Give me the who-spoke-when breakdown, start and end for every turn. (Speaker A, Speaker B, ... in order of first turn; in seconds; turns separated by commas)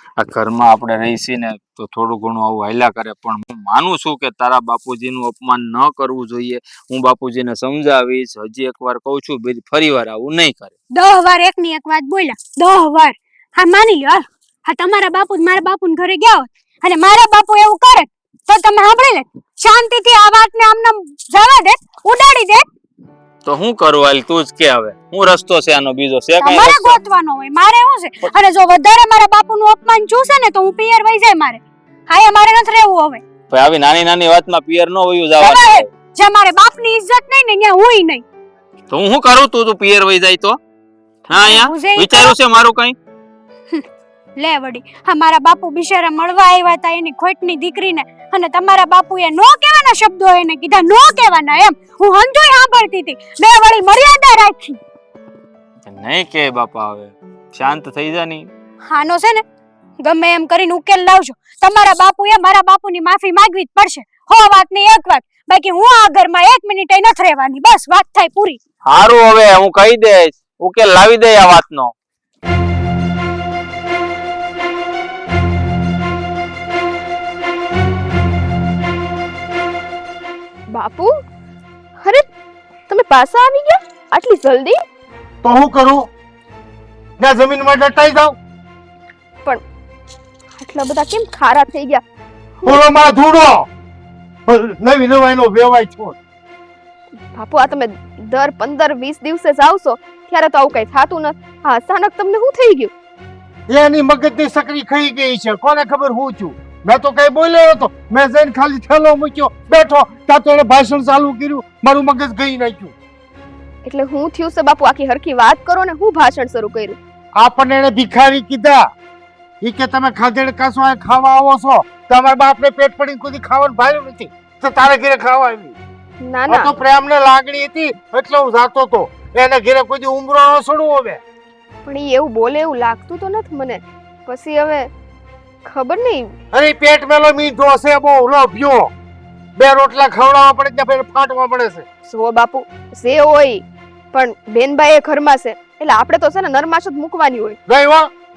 Speaker A: 0.2-10.7, Speaker B: 10.9-22.6, Speaker A: 23.4-27.0, Speaker B: 26.4-33.2, Speaker A: 33.5-35.9, Speaker B: 35.4-38.2, Speaker A: 38.9-40.6, Speaker A: 41.3-43.0, Speaker B: 41.3-42.4, Speaker B: 44.4-54.8, Speaker A: 55.9-58.5, Speaker B: 58.8-59.4, Speaker B: 60.0-68.6, Speaker A: 68.8-71.9, Speaker C: 80.7-81.1, Speaker C: 82.9-84.8, Speaker D: 85.4-86.1, Speaker D: 87.2-88.3, Speaker C: 90.6-92.0, Speaker D: 92.6-93.7, Speaker D: 94.5-96.2, Speaker C: 97.3-102.9, Speaker D: 103.7-112.9, Speaker C: 113.8-117.0, Speaker D: 117.4-118.8, Speaker D: 119.6-125.8, Speaker C: 126.2-126.7, Speaker D: 126.5-131.2, Speaker C: 131.8-134.9, Speaker C: 135.6-136.2, Speaker D: 136.5-138.9, Speaker D: 139.6-141.8, Speaker C: 142.1-147.6, Speaker D: 147.7-148.1